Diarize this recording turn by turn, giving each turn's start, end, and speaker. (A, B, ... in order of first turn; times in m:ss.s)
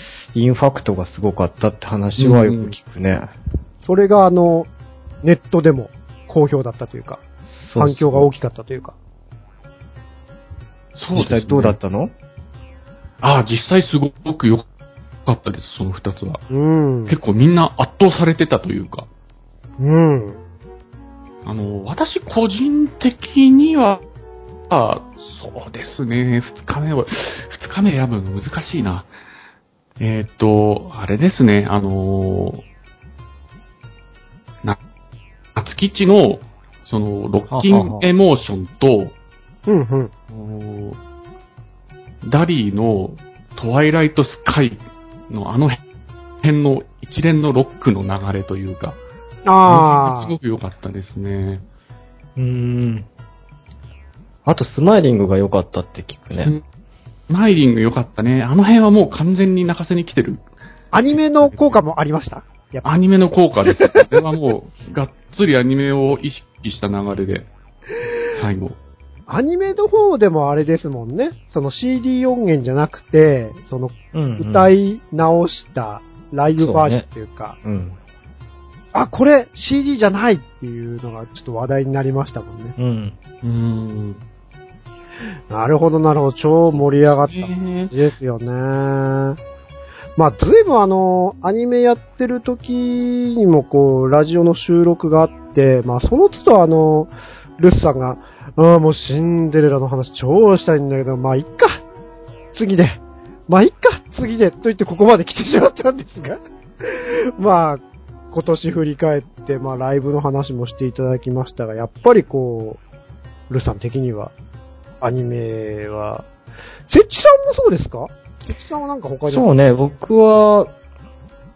0:00.3-0:03.3 A
0:02.2-0:02.8 B
0:03.8-0:04.7 C
0:05.2-0:07.2 C
0:07.4-0:08.3 A
0:07.8-0:09.0 C
0:11.0-0:11.8 B
0:11.2-0:12.1 A
0:13.2-0:14.7 B
0:15.2-0:16.4 B
0:16.5-0:17.2 C
0:17.1-0:19.1 B
0:19.8-0:20.4 C
0:21.4-0:24.0 B
0:24.7-0:29.1 B
0:30.0-0:32.6 B
0:35.6-0:39.2 B
0:37.5-0:38.1 A
0:39.7-0:40.1 C
0:40.3-0:41.0 B
0:42.2-0:45.8 B
0:46.4-0:49.0 B
0:49.5-0:50.4 C
0:49.7-0:51.6 B
0:52.4-0:53.1 A
0:54.4-0:56.5 A
0:56.3-0:56.6 B
0:57.3-1:00.4 B
1:00.9-1:02.9 C
1:01.2-1:01.8 B
1:02.8-1:07.5 B
1:03.8-1:04.1 C
1:08.3-1:08.8 B
1:09.3-1:17.6 C
1:14.1-1:14.7 A
1:16.6-1:17.1 A
1:17.6-1:18.0 A
1:18.9-1:22.8 C
1:22.8-1:23.2 A
1:23.4-1:24.2 B
1:25.5-1:29.4 C
1:26.7-1:28.0 B
1:30.2-1:41.8 C
1:42.6-1:52.8 C
1:53.5-1:54.3 C
1:55.0-1:56.3 C
1:56.9-1:59.5 C
1:59.3-2:00.7 A